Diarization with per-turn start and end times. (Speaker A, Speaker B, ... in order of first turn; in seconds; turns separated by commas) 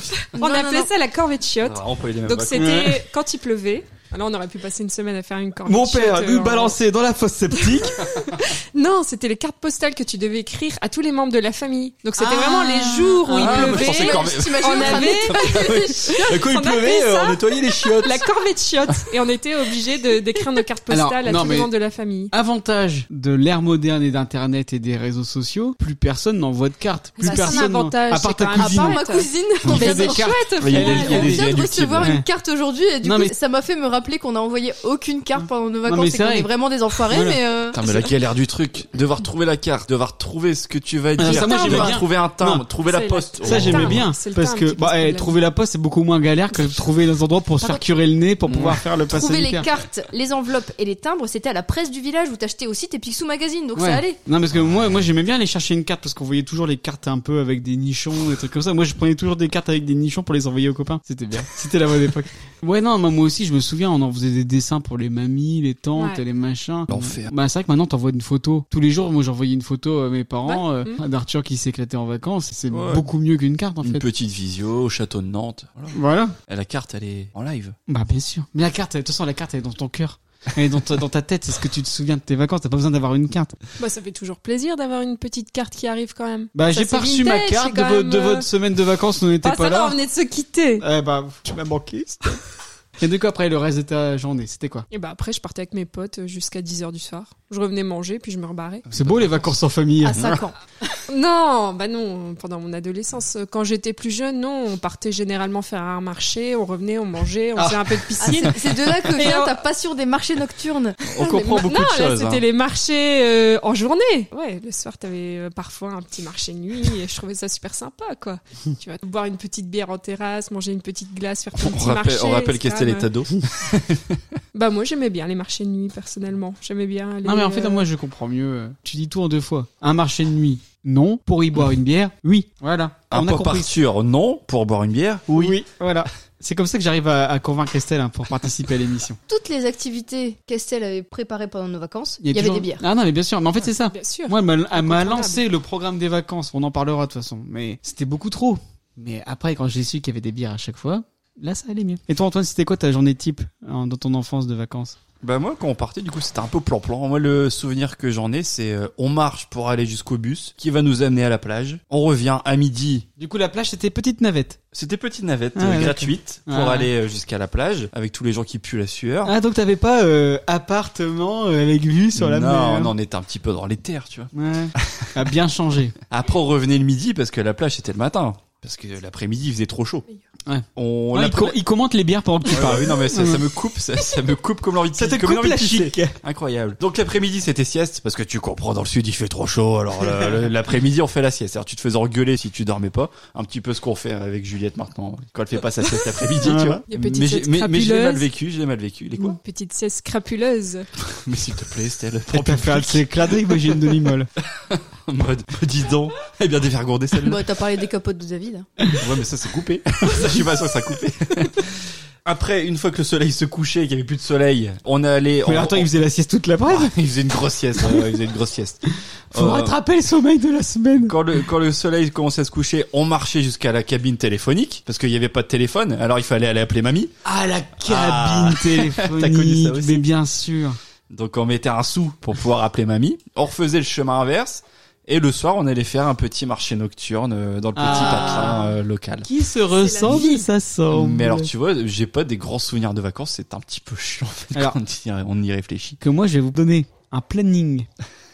Speaker A: 0.2-6.8, Speaker B: 0.3-0.9, Speaker C: 1.6-2.9, Speaker D: 2.5-3.0, Speaker D: 5.7-8.0, Speaker A: 7.6-22.3, Speaker B: 12.2-16.2, Speaker D: 13.2-13.8, Speaker C: 13.3-18.3, Speaker D: 20.9-21.7, Speaker D: 22.3-29.0, Speaker A: 27.2-31.4, Speaker B: 27.2-27.6, Speaker B: 28.6-38.0, Speaker D: 29.6-32.2, Speaker C: 30.6-32.2, Speaker D: 33.0-33.3, Speaker D: 35.9-37.4, Speaker C: 37.7-44.1, Speaker D: 41.2-42.6, Speaker A: 41.3-41.9, Speaker B: 41.6-41.9, Speaker A: 42.9-45.4, Speaker D: 43.4-49.7, Speaker C: 48.5-48.8, Speaker B: 49.0-54.2, Speaker D: 53.8-74.0, Speaker A: 66.0-66.2, Speaker C: 66.9-67.3, Speaker A: 70.4-71.0, Speaker C: 72.7-73.1, Speaker C: 73.8-77.8, Speaker D: 75.9-76.3, Speaker D: 77.9-83.5, Speaker A: 83.8-88.5, Speaker D: 86.5-90.0, Speaker A: 89.4-90.8, Speaker D: 90.8-92.4, Speaker D: 93.0-94.8, Speaker A: 94.9-98.8, Speaker C: 98.9-99.5, Speaker D: 98.9-100.3, Speaker B: 100.0-100.5, Speaker C: 100.1-100.4, Speaker A: 101.1-109.6, Speaker D: 107.6-108.5, Speaker B: 108.2-111.0, Speaker C: 111.0-112.4, Speaker A: 111.2-123.1, Speaker C: 121.6-124.2, Speaker A: 124.5-127.9, Speaker D: 127.2-133.7, Speaker C: 133.1-135.6, Speaker D: 135.3-139.2, Speaker B: 139.3-142.8, Speaker D: 142.2-155.0, Speaker A: 143.8-145.4, Speaker C: 155.2-163.1, Speaker D: 163.2-164.6, Speaker C: 164.7-169.3, Speaker D: 165.6-166.9, Speaker D: 169.2-172.9, Speaker C: 172.1-175.1, Speaker D: 174.3-175.9, Speaker C: 176.1-180.0, Speaker D: 180.4-183.4, Speaker C: 180.8-181.6, Speaker C: 182.4-199.4, Speaker D: 184.9-186.2, Speaker D: 196.4-196.8, Speaker A: 196.9-198.3, Speaker A: 199.2-200.9, Speaker C: 201.0-203.1, Speaker D: 202.3-204.3, Speaker C: 204.4-207.4, Speaker B: 207.2-208.7, Speaker C: 209.0-215.9, Speaker D: 215.4-216.9, Speaker C: 216.7-218.8, Speaker D: 217.8-218.1, Speaker C: 219.3-219.8, Speaker D: 219.3-221.4, Speaker C: 221.0-227.1, Speaker D: 227.2-230.8, Speaker C: 227.8-230.1, Speaker C: 231.1-239.3, Speaker D: 237.7-238.7, Speaker D: 239.2-241.5, Speaker A: 239.7-240.4, Speaker C: 240.9-246.0, Speaker D: 246.0-247.9